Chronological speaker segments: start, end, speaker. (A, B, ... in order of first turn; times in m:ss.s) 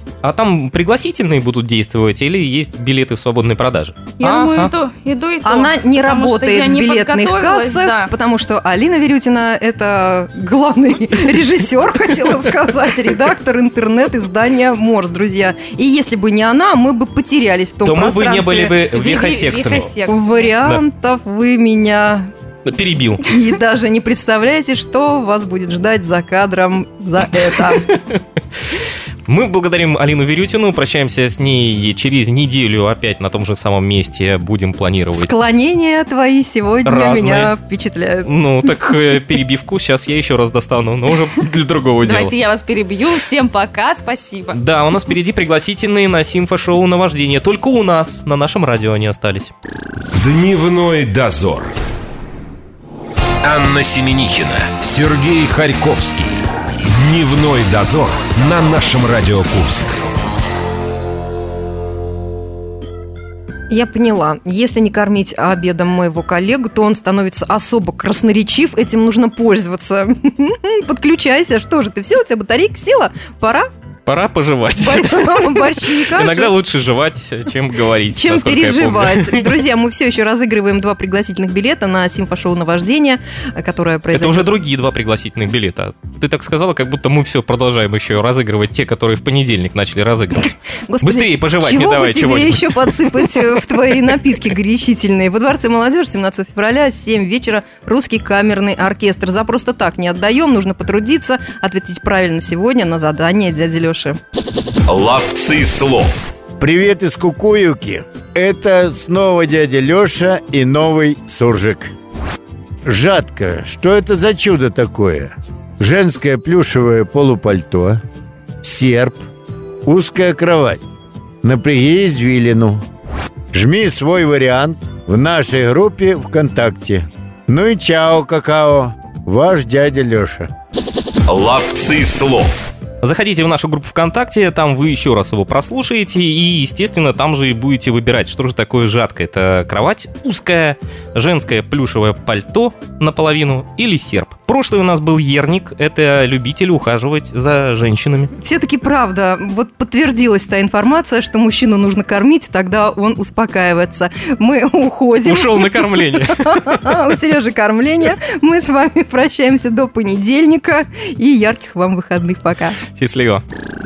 0:00.2-0:04.7 A
0:04.3-0:04.6 B
0:05.4-0:18.8 C
0:05.5-0:08.0 B
0:17.8-0:20.0 A
0:19.0-0:20.5 B
0:20.0-0:22.3 C
0:22.6-0:23.2 A
0:23.2-0:27.9 C
0:27.6-0:28.2 A
0:29.3-0:35.3 A
0:35.1-0:38.3 C
0:36.8-0:37.5 A
0:38.2-0:42.4 A
0:42.0-0:44.5 B
0:44.5-0:49.5 A
0:50.2-0:51.7 D
0:50.3-0:51.5 B
0:53.4-1:00.0 D
0:53.5-0:54.6 B
0:55.9-0:56.2 B
0:57.1-0:57.6 B
1:03.7-1:13.7 C
1:14.0-1:19.6 A
1:14.8-1:16.5 C
1:18.1-1:24.5 C
1:24.1-1:33.6 A
1:30.8-1:44.2 C
1:44.9-1:46.3 D
1:44.9-1:46.2 B
1:46.6-1:51.9 E
1:52.8-1:58.0 E
1:58.6-1:59.2 E
1:59.8-2:00.8 E
2:01.4-2:02.8 E
2:03.5-2:10.5 E
2:11.3-2:12.7 D
2:11.3-2:12.6 B
2:13.0-2:28.3 A
2:28.4-2:42.8 C
2:35.2-2:37.0 A
2:43.0-2:43.4 A